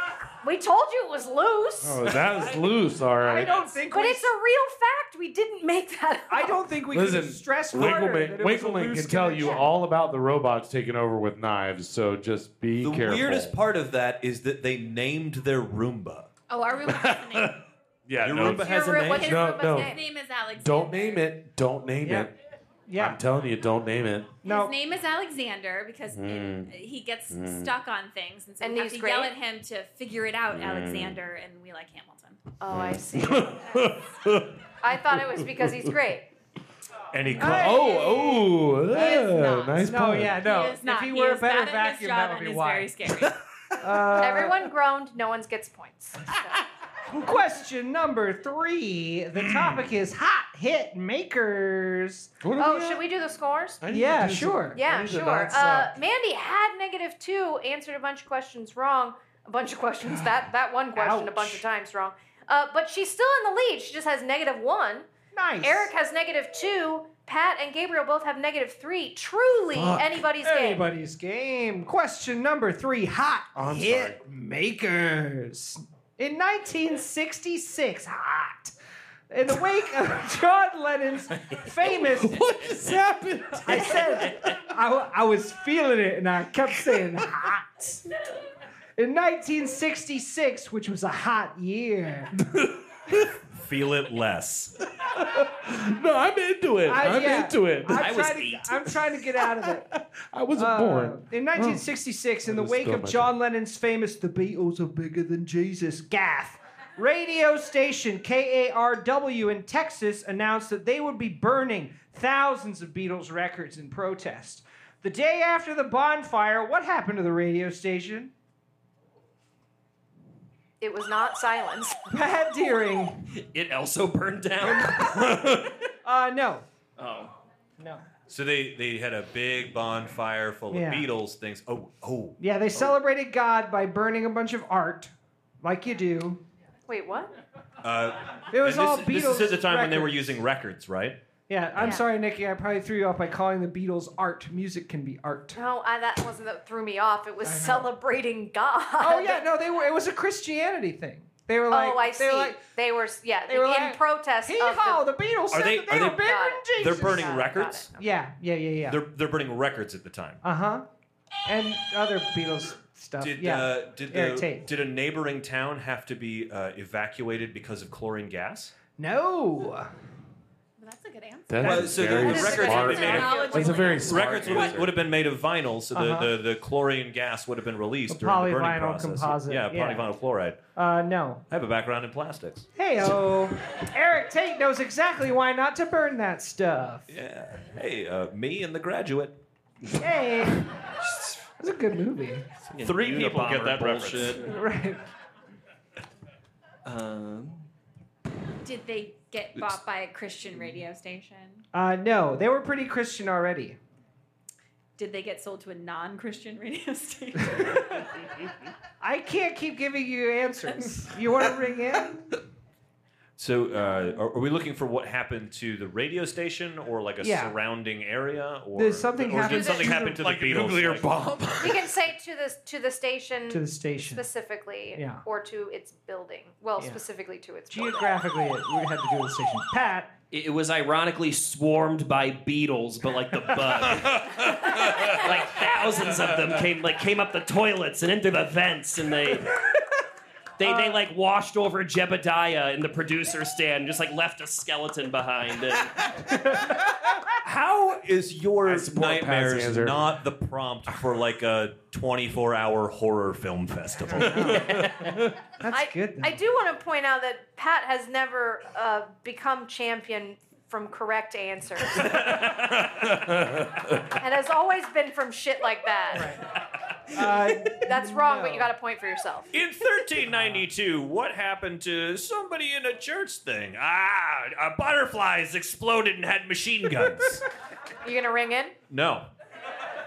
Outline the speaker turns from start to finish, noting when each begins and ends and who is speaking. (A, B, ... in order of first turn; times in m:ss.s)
0:00.4-0:02.1 A
0:01.8-0:03.5 B
0:03.2-0:04.3 C
0:03.9-0:06.6 A
0:06.3-0:09.7 C
0:06.9-0:13.6 B
0:12.8-0:16.3 D
0:16.5-0:17.6 E
0:16.8-0:20.0 B
0:18.2-0:19.3 D
0:18.4-0:20.0 A
0:19.0-0:21.3 E
0:20.6-0:22.3 B
0:22.0-0:22.3 C
0:22.9-0:23.2 C
0:23.0-0:24.3 B
0:24.4-0:32.5 E
0:24.4-0:24.7 C
0:26.1-0:26.7 B
0:27.3-0:27.7 B
0:28.6-0:29.3 A
0:30.5-0:31.2 B
0:32.6-0:33.8 A
0:32.7-0:35.9 B
0:34.8-0:36.3 A
0:37.1-0:37.8 D
0:37.2-0:40.4 B
0:37.4-0:42.9 C
0:38.9-0:43.4 E
0:43.8-0:44.6 C
0:44.2-0:46.6 A
0:47.1-0:52.3 C
0:49.4-0:49.9 B
0:52.4-0:53.0 B
0:52.6-0:53.8 A
0:53.8-0:55.9 B
0:53.9-0:54.8 C
0:54.7-1:05.1 A
1:00.9-1:01.6 C
1:05.3-1:05.9 C
1:05.6-1:10.8 A
1:09.7-1:10.2 B
1:10.4-1:18.7 C
1:13.5-1:14.2 B
1:19.3-1:22.4 C
1:22.1-1:24.4 B
1:23.6-1:28.1 C
1:29.0-1:32.3 C
1:32.4-1:33.3 B
1:33.5-1:34.7 D
1:34.9-1:38.0 B
1:36.8-1:39.9 C
1:37.9-1:38.9 F
1:39.4-1:41.8 B
1:40.6-1:58.3 C
1:42.4-1:43.3 B
2:00.8-2:02.0 A
2:02.1-2:03.3 C
2:03.4-2:05.3 F
2:04.8-2:05.8 B
2:06.0-2:06.6 C
2:07.0-2:07.3 F
2:08.3-2:12.9 D
2:10.7-2:11.1 C
2:12.4-2:16.4 C
2:16.9-2:17.3 A
2:17.8-2:21.2 D
2:18.5-2:20.4 C
2:21.5-2:25.6 C
2:25.5-2:29.5 A
2:27.4-2:27.9 C
2:29.0-2:32.6 C
2:31.7-2:35.1 A
2:33.5-2:37.4 C
2:35.5-2:37.9 D
2:36.2-2:38.0 A
2:38.0-2:39.0 C
2:38.9-2:40.4 D
2:40.4-2:40.8 C
2:41.4-2:44.7 C
2:43.2-2:48.7 D
2:49.0-2:49.9 C
2:50.8-2:54.8 E
2:51.5-2:54.9 B
2:51.6-3:00.6 D
2:52.1-2:54.5 A
2:55.9-2:56.3 C
2:58.1-3:00.1 C
3:00.8-3:01.4 C
3:01.5-3:02.7 D
3:02.8-3:07.1 C
3:07.1-3:09.4 D
3:10.0-3:10.8 C
3:11.0-3:11.5 F
3:11.6-3:12.4 C
3:12.7-3:14.5 F
3:12.8-3:14.5 D
3:14.4-3:15.0 C
3:16.8-3:17.7 F
3:18.6-3:21.6 E
3:21.7-3:23.8 C
3:25.0-3:28.0 E
3:27.5-3:27.8 C
3:29.0-3:32.4 C
3:33.4-3:41.1 D
3:37.2-3:37.5 C
3:38.7-3:40.2 C
3:39.4-3:40.0 A
3:40.0-3:41.9 B
3:41.6-3:48.2 A
3:43.5-3:44.2 C
3:44.9-3:45.2 C
3:47.7-3:50.1 C
3:50.3-3:59.6 F
3:54.0-3:55.2 B
3:56.1-3:56.4 B
4:00.6-4:06.1 F
4:00.6-4:01.0 C
4:06.3-4:07.0 C
4:07.3-4:14.8 D
4:08.6-4:10.2 B
4:14.1-4:16.4 C
4:14.4-4:15.3 B
4:15.7-4:22.3 A
4:22.0-4:22.9 D
4:22.9-4:24.0 B
4:24.1-4:26.3 A
4:26.1-4:26.4 C
4:27.1-4:28.7 C
4:27.7-4:29.5 A
4:29.5-4:37.4 D
4:30.2-4:30.6 C
4:38.0-4:38.7 A
4:38.9-4:39.3 D